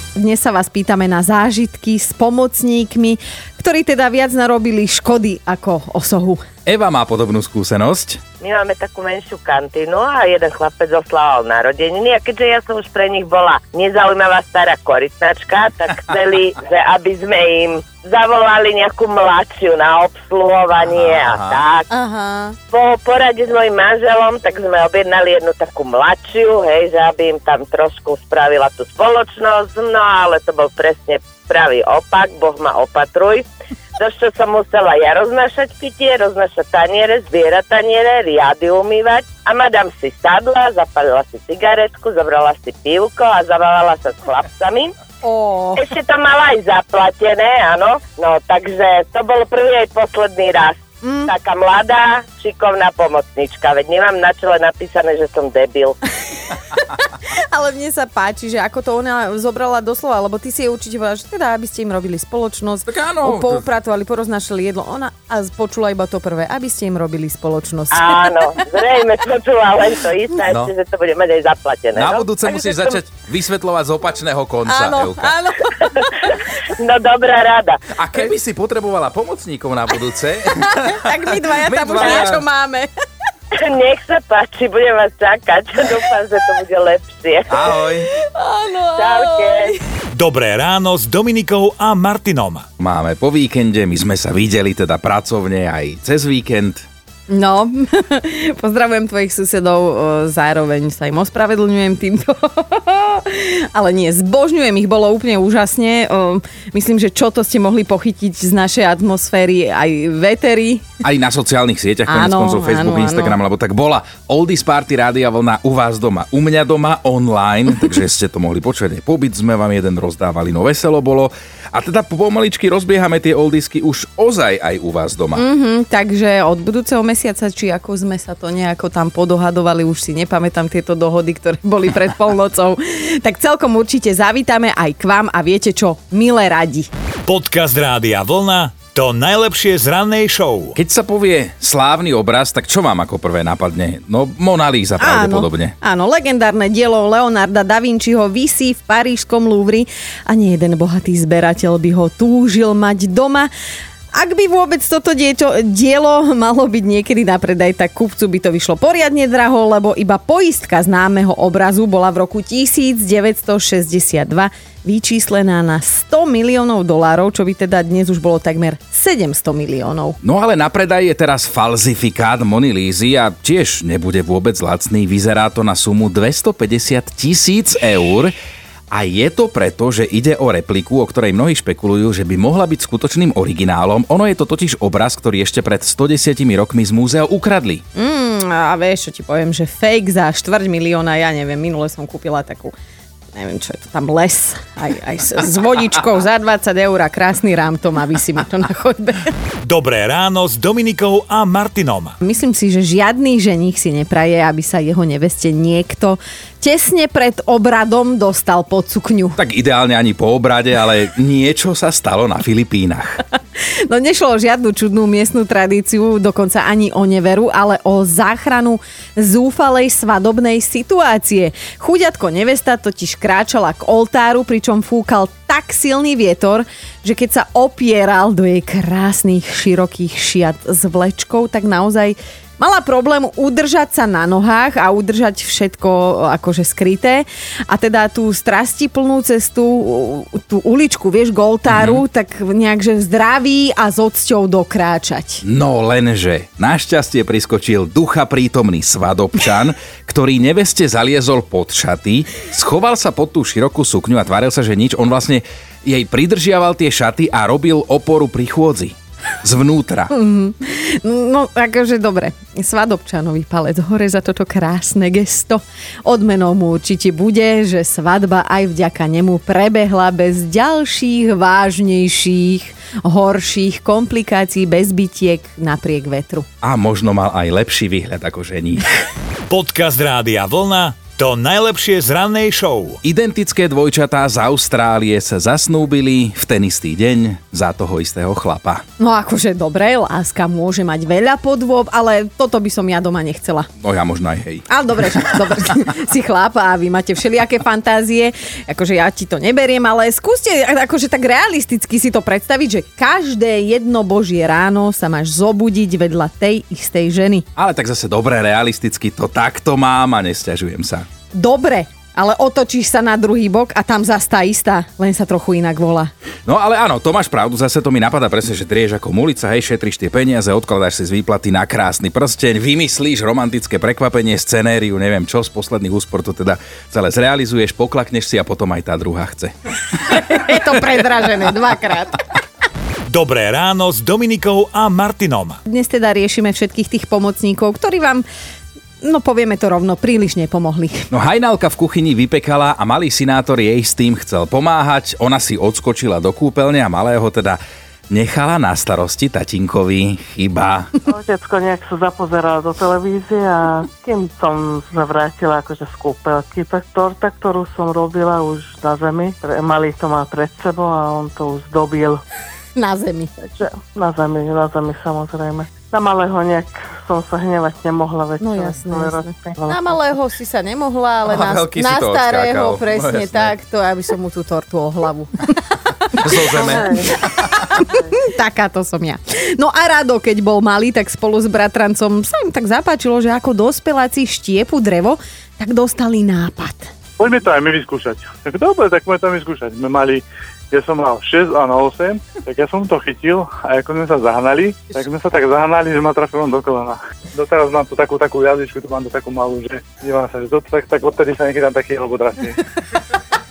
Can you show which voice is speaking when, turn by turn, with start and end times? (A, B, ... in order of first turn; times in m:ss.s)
0:00.2-0:06.4 A
0:06.6-0:08.2 B
0:08.4-0:21.9 C
0:20.8-0:21.6 B
0:21.9-0:22.6 A
0:22.7-0:33.5 C
0:34.0-0:44.9 C
0:45.2-0:45.8 A
0:45.8-0:56.0 C
0:51.0-0:51.3 A
0:56.5-1:08.4 A
1:02.8-1:03.7 B
1:07.9-1:13.0 C
1:12.0-1:15.3 B
1:14.7-1:16.1 A
1:16.8-1:17.8 C
1:18.0-1:22.4 B
1:20.7-1:22.9 A
1:23.6-1:27.6 C
1:27.5-1:28.1 B
1:28.1-1:29.8 A
1:28.9-1:29.7 C
1:30.1-1:32.6 D
1:32.8-1:36.8 B
1:37.3-1:50.9 A
1:51.0-2:05.4 B
1:52.1-1:53.4 A
2:05.4-2:16.9 A
2:17.2-2:20.8 D
2:20.8-2:25.7 B
2:25.0-2:33.5 A
2:34.1-2:50.2 A
2:50.2-2:58.3 B
2:58.9-3:07.8 B
3:08.0-3:12.7 A
3:13.4-3:19.3 A
3:19.6-3:22.2 D
3:22.2-3:29.4 A
3:29.4-3:33.2 B
3:33.9-4:05.4 A
4:01.7-4:02.0 B
4:05.4-4:20.1 B
4:20.1-4:36.4 A
4:36.6-4:38.9 B
4:39.5-4:43.0 D
4:43.0-4:48.8 B
4:49.0-4:53.7 A
4:53.8-4:54.6 B
4:54.7-5:07.4 A
5:07.6-5:11.0 B
5:11.3-5:16.1 A
5:16.4-5:29.5 B
5:30.0-5:32.2 A
5:33.1-5:35.6 D
5:35.7-5:38.2 A
5:39.0-5:41.1 A
5:41.1-5:47.6 B
5:48.1-5:50.9 B
5:51.1-6:02.2 E
6:02.8-6:03.3 A
6:03.5-6:09.9 E
6:08.4-6:15.6 A
6:11.2-6:13.5 B
6:16.1-6:26.9 A
6:16.1-6:17.7 B
6:27.2-6:42.6 F